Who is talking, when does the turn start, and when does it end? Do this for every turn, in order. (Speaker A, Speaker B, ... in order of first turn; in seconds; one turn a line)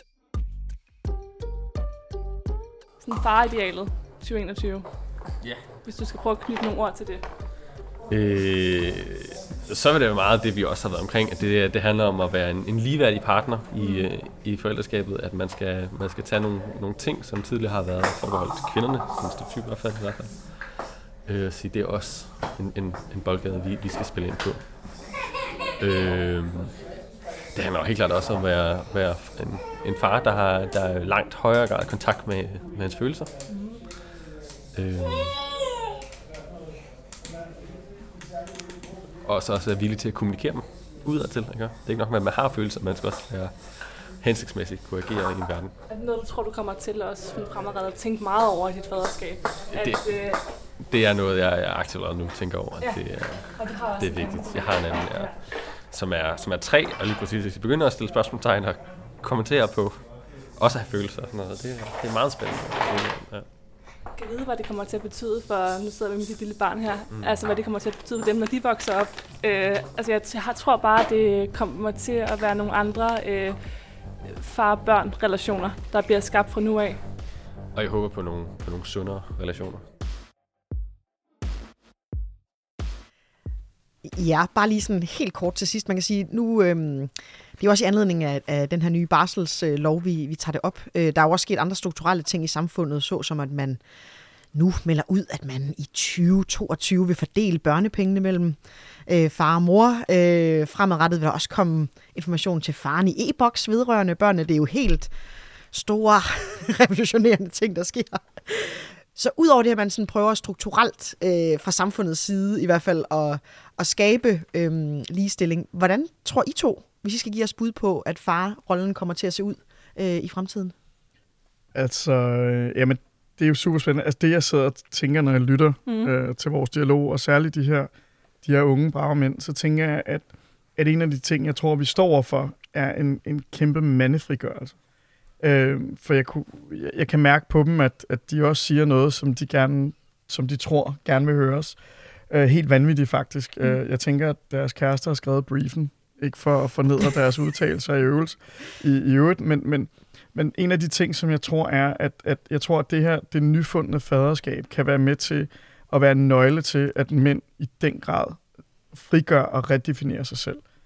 Speaker A: 3.0-4.8
Speaker A: 5.8-7.2
Speaker B: 8.1-20.7
Speaker A: 13.8-14.1
Speaker B: 21.2-24.8
Speaker B: 25.8-26.8
Speaker B: 27.5-33.3
Speaker B: 34.7-35.4
Speaker B: 39.2-45.7
Speaker A: 45.9-50.4
Speaker B: 49.7-50.0
Speaker B: 50.8-63.5
Speaker A: 52.8-55.3
Speaker A: 64.2-73.6
Speaker A: 74.2-77.0
Speaker B: 77.7-79.8
Speaker C: 84.0-93.8
Speaker C: 94.5-105.1
Speaker C: 105.7-120.7
Speaker D: 121.7-127.9
Speaker D: 128.4-134.7
Speaker D: 135.4-141.8
Speaker D: 142.3-158.4
Speaker D: 158.9-160.6